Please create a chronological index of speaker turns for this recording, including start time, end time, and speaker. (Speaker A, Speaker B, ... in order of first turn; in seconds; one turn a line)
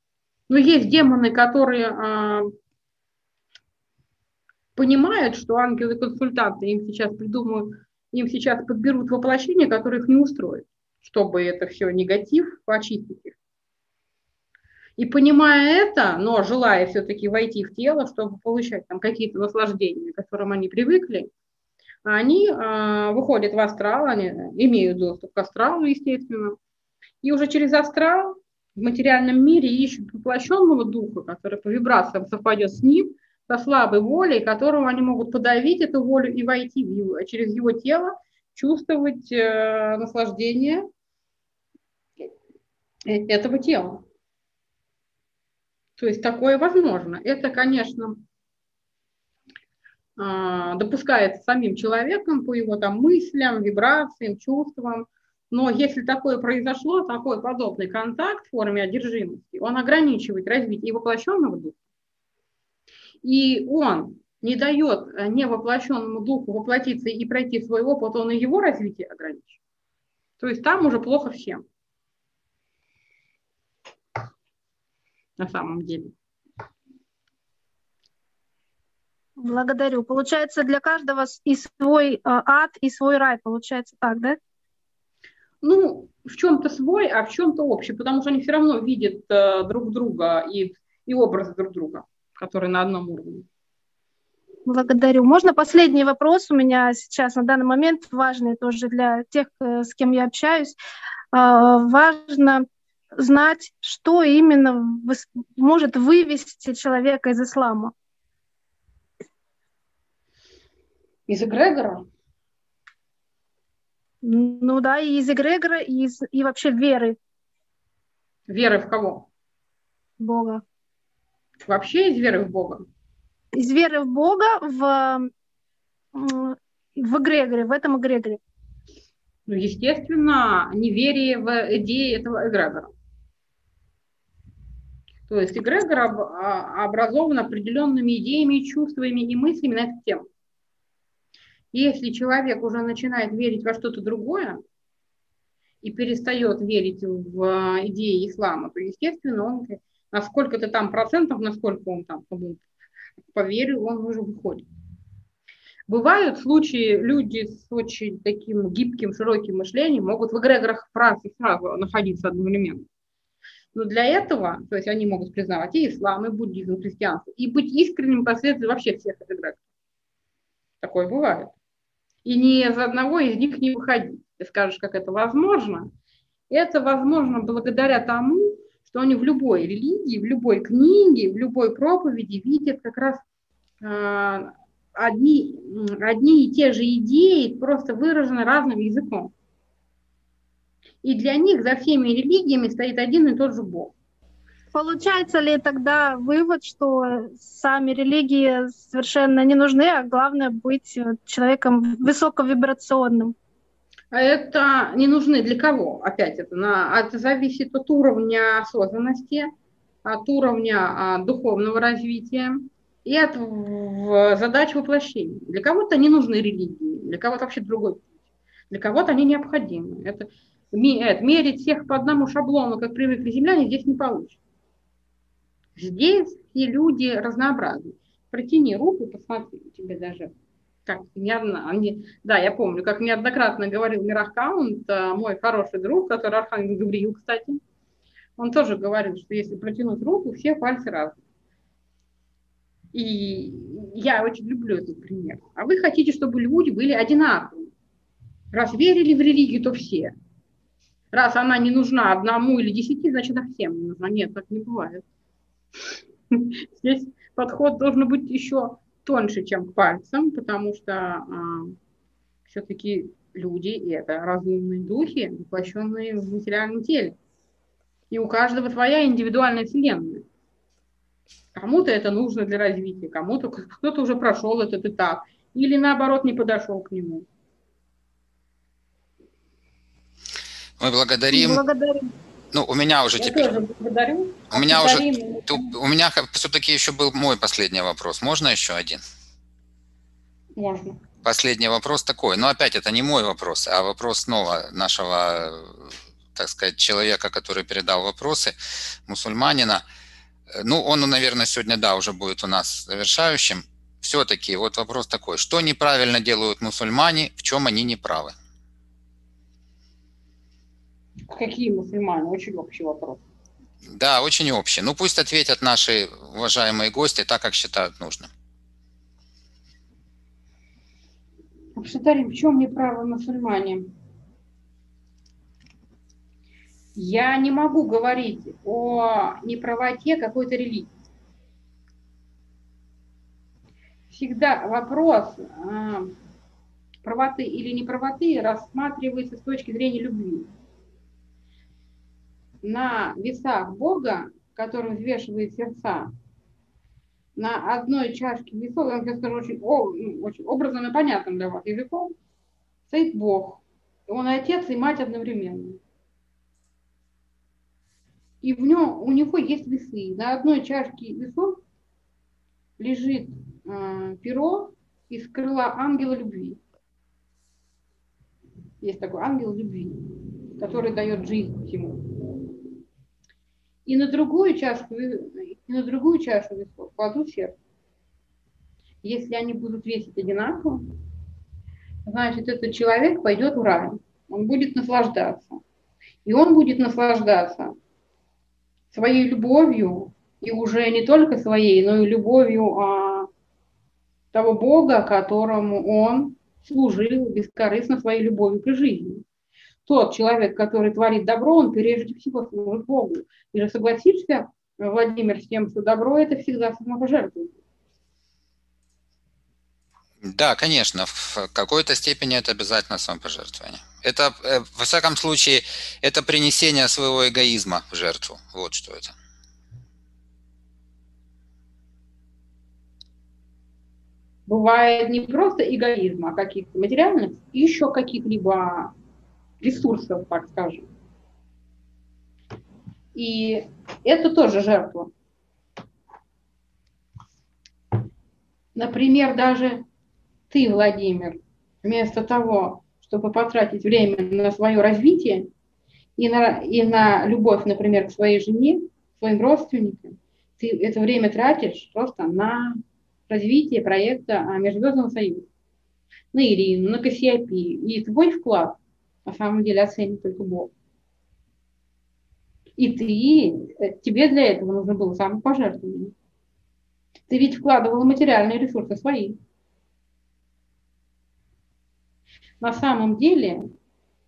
Speaker A: 0.5-2.5
Speaker A: 4.8-13.4
Speaker A: 15.0-21.3
Speaker A: 22.1-26.6
Speaker A: 27.2-40.9
Speaker A: 43.1-44.0
Speaker A: 46.0-48.2
Speaker A: 50.2-61.8
Speaker A: 63.2-69.6
Speaker A: 70.4-71.6
Speaker A: 75.4-76.1
Speaker B: 79.4-84.4
Speaker A: 85.6-93.5
Speaker B: 94.7-100.8
Speaker B: 101.3-102.7
Speaker B: 103.2-107.9
Speaker A: 111.3-112.0
Speaker B: 114.2-117.2
Speaker A: 118.5-119.3
Speaker B: 120.2-120.6
Speaker A: 121.7-122.8
Speaker B: 123.5-125.3
Speaker B: 126.1-128.4
Speaker A: 129.5-132.9
Speaker A: 135.3-140.3
Speaker A: 141.7-144.6
Speaker A: 145.8-152.6
Speaker A: 153.3-154.7
Speaker A: 155.9-162.9
Speaker A: 163.7-169.6
Speaker A: 170.8-171.5
Speaker A: 172.2-175.9
Speaker A: 176.5-183.2
Speaker A: 183.8-189.3
Speaker A: 191.0-193.9
Speaker B: 194.7-203.3
Speaker A: 204.1-209.5
Speaker A: 210.1-218.0
Speaker A: 218.7-224.4
Speaker A: 225.8-230.3
Speaker A: 230.9-237.6
Speaker A: 238.4-241.2
Speaker A: 242.9-247.7
Speaker A: 248.5-250.1
Speaker A: 251.1-255.0
Speaker A: 256.3-261.8
Speaker A: 262.5-267.2
Speaker A: 268.1-270.2
Speaker A: 271.6-277.3
Speaker C: 280.8-281.6
Speaker B: 281.3-282.1
Speaker C: 282.5-283.6
Speaker A: 283.2-285.7
Speaker C: 284.5-289.0
Speaker A: 290.6-291.0
Speaker C: 291.2-298.5
Speaker C: 299.1-299.8
Speaker C: 300.5-308.3
Speaker A: 311.3-313.2
Speaker C: 313.9-318.3
Speaker A: 321.8-323.9
Speaker A: 326.9-330.9
Speaker A: 334.1-336.1
Speaker A: 337.0-340.5
Speaker A: 342.6-346.1
Speaker A: 347.4-352.1
Speaker A: 352.9-355.8
Speaker A: 358.4-361.6
Speaker A: 362.8-366.6
Speaker A: 368.8-372.4
Speaker A: 373.9-377.6
Speaker A: 379.0-380.9
Speaker A: 382.1-385.6
Speaker A: 386.2-387.8
Speaker A: 388.9-393.3
Speaker A: 394.3-399.2
Speaker A: 399.9-407.6
Speaker C: 410.2-419.1
Speaker A: 424.5-428.9
Speaker A: 429.6-430.9
Speaker A: 433.1-435.1
Speaker A: 438.8-439.8
Speaker A: 440.5-445.5
Speaker A: 446.2-455.5
Speaker A: 456.3-460.7
Speaker A: 462.8-466.1
Speaker A: 467.3-469.4
Speaker A: 472.6-473.6